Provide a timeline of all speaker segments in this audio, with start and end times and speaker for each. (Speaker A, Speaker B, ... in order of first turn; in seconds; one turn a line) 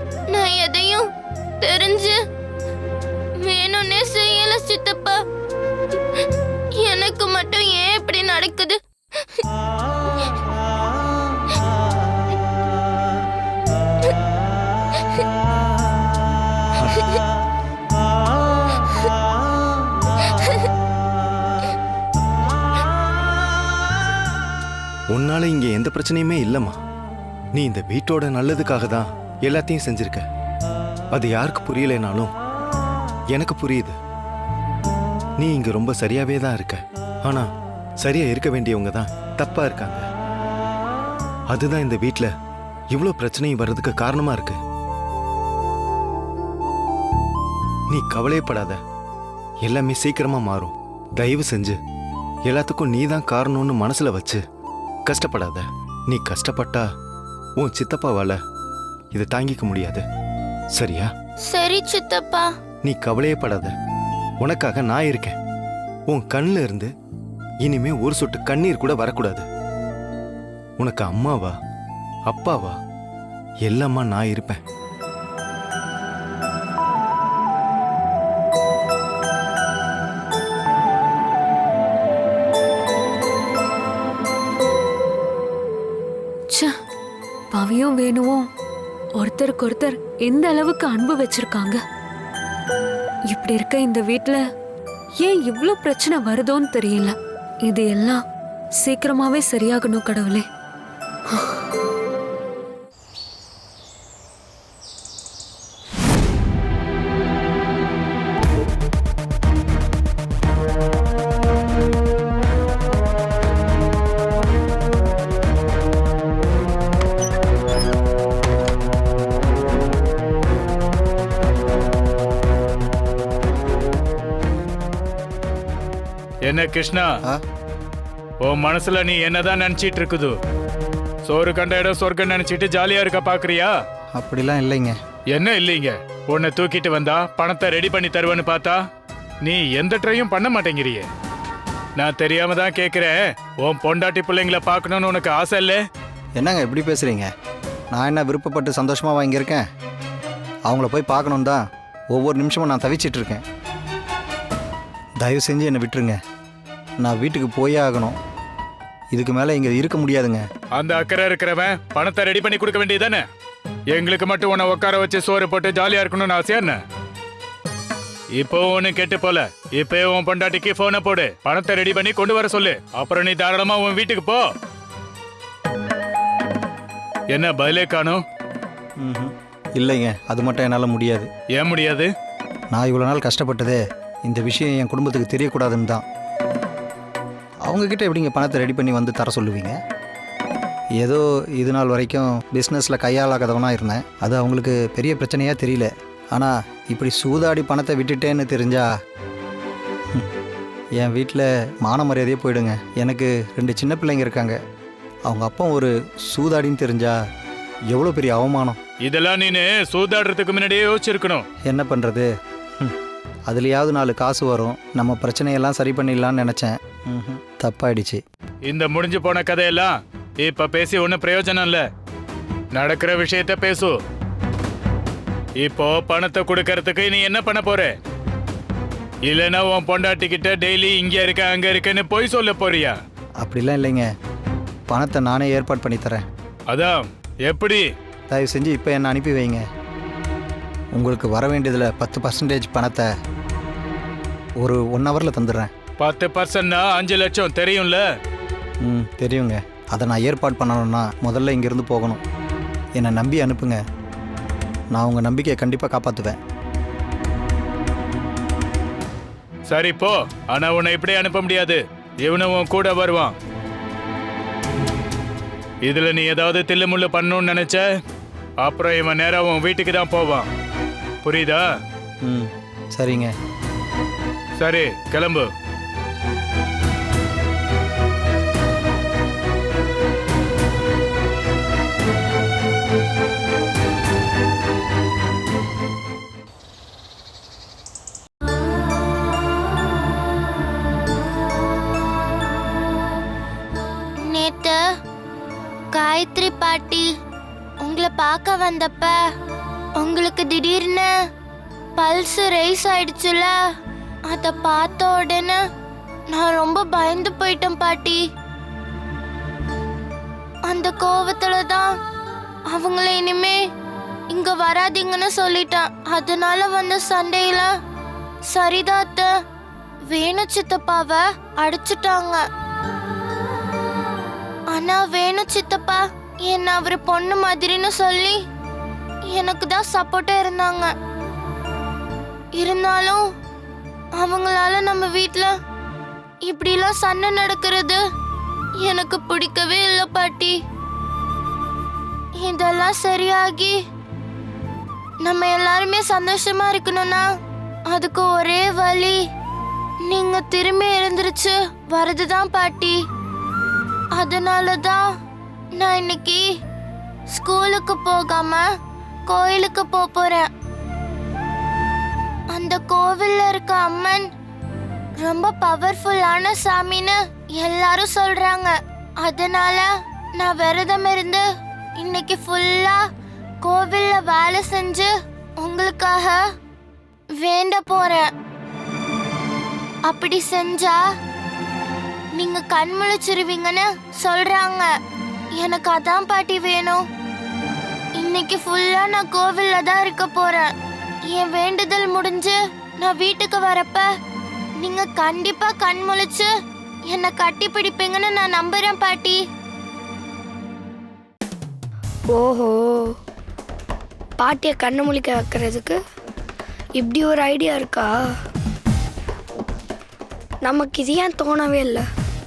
Speaker A: 0.3-1.1
Speaker A: 1.6-2.2
Speaker A: 3.4-5.2
Speaker A: 6.8-9.4
Speaker B: 25.1-26.8
Speaker B: 27.5-30.2
Speaker B: 31.1-32.3
Speaker B: 33.3-34.0
Speaker B: 35.4-37.5
Speaker B: 38.0-40.0
Speaker B: 41.5-42.3
Speaker B: 42.9-44.6
Speaker B: 47.9-48.8
Speaker B: 49.6-51.7
Speaker B: 52.5-54.4
Speaker B: 55.0-56.8
Speaker B: 57.6-58.4
Speaker B: 59.1-60.0
Speaker B: 60.7-61.1
Speaker A: 61.5-62.5
Speaker B: 62.8-63.7
Speaker B: 64.4-65.3
Speaker B: 66.1-66.9
Speaker B: 67.6-69.4
Speaker B: 70.8-71.5
Speaker B: 72.3-72.8
Speaker B: 73.7-74.6
Speaker C: 87.5-88.5
Speaker C: 89.2-91.8
Speaker C: 93.3-94.4
Speaker C: 95.2-98.2
Speaker C: 98.8-100.4
Speaker D: 126.4-127.1
Speaker D: 128.4-130.4
Speaker D: 131.2-133.7
Speaker E: 134.1-134.9
Speaker D: 135.3-138.8
Speaker D: 139.4-141.1
Speaker D: 141.9-145.8
Speaker E: 146.4-147.3
Speaker E: 147.9-149.6
Speaker E: 150.7-153.4
Speaker E: 155.2-156.1
Speaker E: 157.0-158.2
Speaker E: 159.1-160.4
Speaker D: 160.7-163.2
Speaker D: 163.9-166.8
Speaker D: 168.3-174.4
Speaker D: 177.3-178.2
Speaker E: 179.0-181.3
Speaker D: 181.5-182.1
Speaker E: 182.7-186.0
Speaker E: 187.7-189.8
Speaker E: 191.0-198.8
Speaker E: 201.0-204.6
Speaker E: 205.3-207.2
Speaker E: 207.9-208.8
Speaker D: 209.0-211.4
Speaker E: 211.6-212.3
Speaker E: 213.5-218.2
Speaker D: 218.6-221.8
Speaker D: 222.7-223.9
Speaker D: 225.6-227.9
Speaker D: 229.2-232.9
Speaker E: 233.4-234.1
Speaker E: 234.9-236.2
Speaker D: 236.7-237.9
Speaker E: 238.3-239.6
Speaker E: 240.9-243.1
Speaker E: 244.6-245.7
Speaker D: 246.0-248.0
Speaker E: 248.8-252.2
Speaker E: 252.9-253.8
Speaker E: 254.9-256.4
Speaker D: 259.7-263.3
Speaker D: 265.8-267.8
Speaker D: 268.6-270.5
Speaker D: 271.2-271.6
Speaker E: 272.2-273.3
Speaker D: 274.6-275.5
Speaker A: 294.2-294.8
Speaker A: 295.9-297.1
Speaker A: 297.8-299.2
Speaker A: 300.0-301.1
Speaker A: 302.0-303.6
Speaker A: 304.3-305.6
Speaker A: 306.3-308.2
Speaker A: 310.6-311.9
Speaker A: 312.7-313.6
Speaker A: 314.3-317.7
Speaker A: 318.5-319.3
Speaker A: 320.1-322.4
Speaker A: 324.7-328.4
Speaker A: 329.3-330.9
Speaker A: 332.5-333.2
Speaker A: 334.1-335.5
Speaker A: 336.4-338.0
Speaker A: 338.8-340.6
Speaker A: 342.4-343.8
Speaker A: 345.2-347.3
Speaker A: 347.9-349.2
Speaker A: 350.0-353.0
Speaker A: 354.1-355.0
Speaker A: 355.8-356.4
Speaker A: 357.3-358.6
Speaker A: 359.3-360.5
Speaker A: 362.5-364.3
Speaker A: 365.2-371.4
Speaker A: 371.9-373.0
Speaker A: 373.6-376.4
Speaker A: 377.4-378.3
Speaker A: 380.1-381.0
Speaker A: 382.3-384.9
Speaker A: 385.6-387.0
Speaker A: 388.2-390.7
Speaker A: 391.3-394.1
Speaker A: 394.8-396.5
Speaker A: 397.1-399.4
Speaker F: 402.3-402.8
Speaker F: 404.4-406.0
Speaker F: 407.0-408.1
Speaker F: 410.6-412.0